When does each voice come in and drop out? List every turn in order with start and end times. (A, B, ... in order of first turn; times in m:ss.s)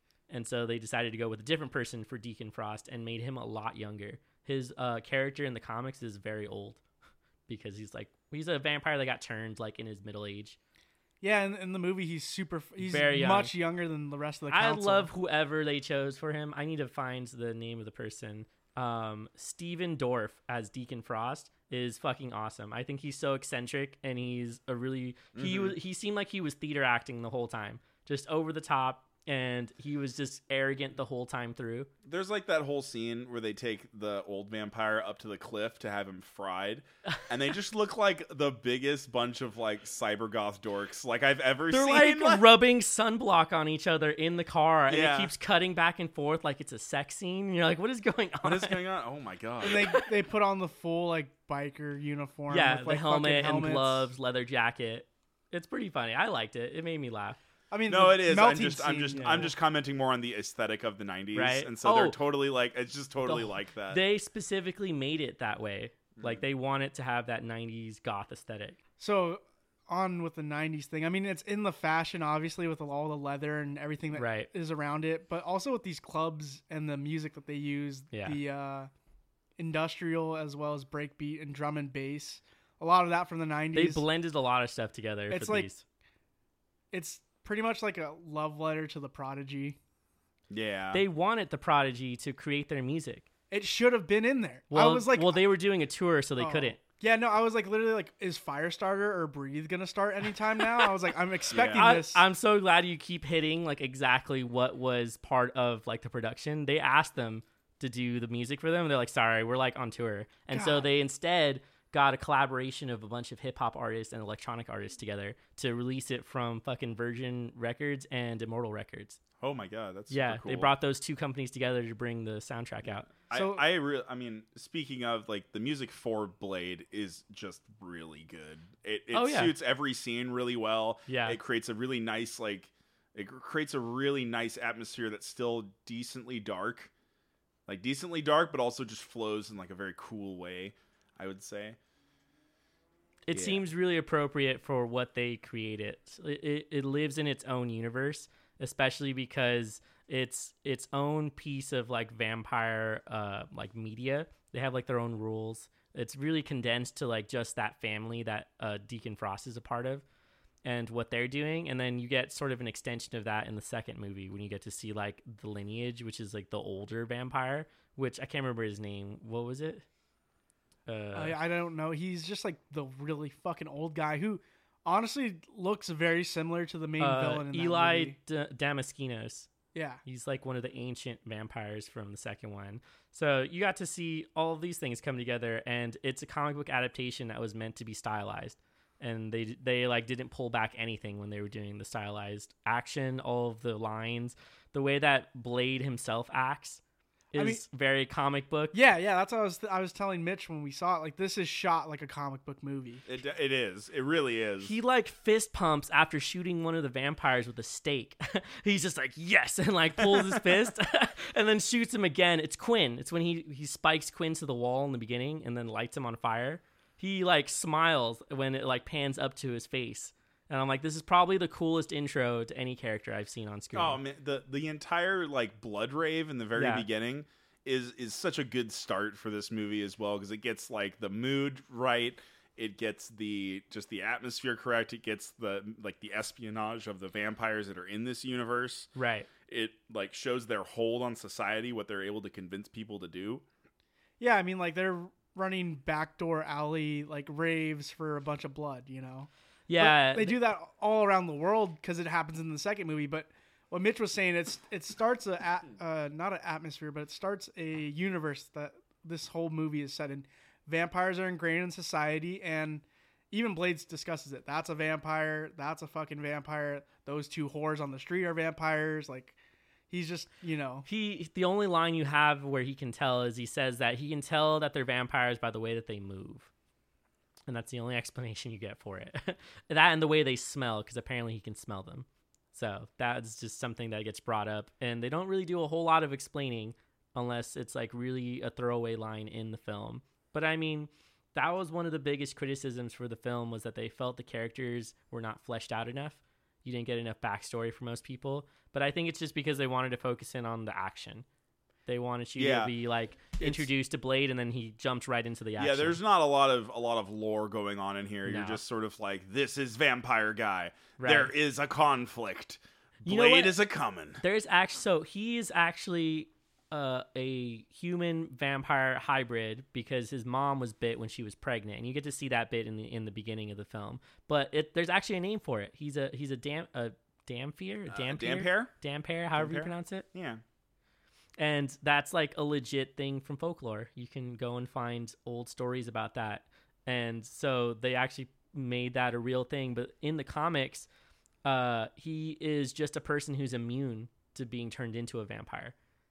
0:00.3-0:06.8 A
0:07.5-0:10.6 A
0:11.2-0:15.1 B
0:12.8-0:13.5 A
0:14.5-0:31.9 A
0:25.3-0:25.7 C
0:32.0-0:42.4 C
0:41.7-0:48.8 A
0:44.9-0:45.3 C
0:48.4-0:49.9 C
0:49.6-0:54.1 B
0:52.5-0:57.4 A
0:57.7-0:59.5 B
0:57.9-1:04.0 C
0:59.1-0:59.5 A
1:01.3-1:02.2 A
1:03.2-1:08.8 A
1:06.2-1:06.4 C
1:09.0-1:18.9 B
1:14.1-1:14.5 A
1:18.1-1:18.4 A
1:19.6-1:24.0 B
1:23.7-1:25.8 A
1:25.3-1:25.7 B
1:26.9-1:29.8 B
1:30.5-1:31.0 C
1:30.9-1:33.2 A
1:33.5-1:35.4 B
1:34.7-1:36.8 A
1:36.4-1:42.2 B
1:41.5-1:41.9 C
1:41.7-1:59.2 A
1:50.5-1:50.9 B
1:59.4-2:00.7 C
2:00.1-2:03.1 A
2:03.1-2:16.9 C
2:03.3-2:03.6 B
2:09.1-2:09.5 A
2:11.1-2:11.4 A
2:17.7-2:21.8 C
2:23.3-2:40.0 A
2:23.3-2:23.6 C
2:40.6-2:49.8 A
2:50.9-2:51.4 A
2:51.1-2:58.2 B
2:57.0-2:59.5 A
2:59.7-3:00.0 B
3:00.0-3:16.8 A
3:17.3-3:18.7 A
3:17.4-3:17.6 B
3:18.7-3:23.0 B
3:23.0-3:24.7 C
3:24.6-3:44.0 A
3:30.0-3:30.4 C
3:43.7-3:58.9 C
3:46.5-3:46.8 A
3:58.9-3:59.3 A
3:59.5-4:03.4 C
4:04.2-4:29.4 B
4:09.7-4:10.4 A
4:29.9-4:30.8 B
4:30.8-4:36.5 A
4:37.5-5:01.2 A
5:01.8-5:06.0 A
5:02.4-5:02.7 C
5:05.6-5:14.2 C
5:08.2-5:08.6 A
5:11.0-5:11.3 A
5:13.0-5:13.5 A
5:14.2-5:30.0 A
5:27.9-5:28.7 C
5:29.4-5:30.4 C
5:31.4-5:40.9 A
5:41.4-5:45.7 A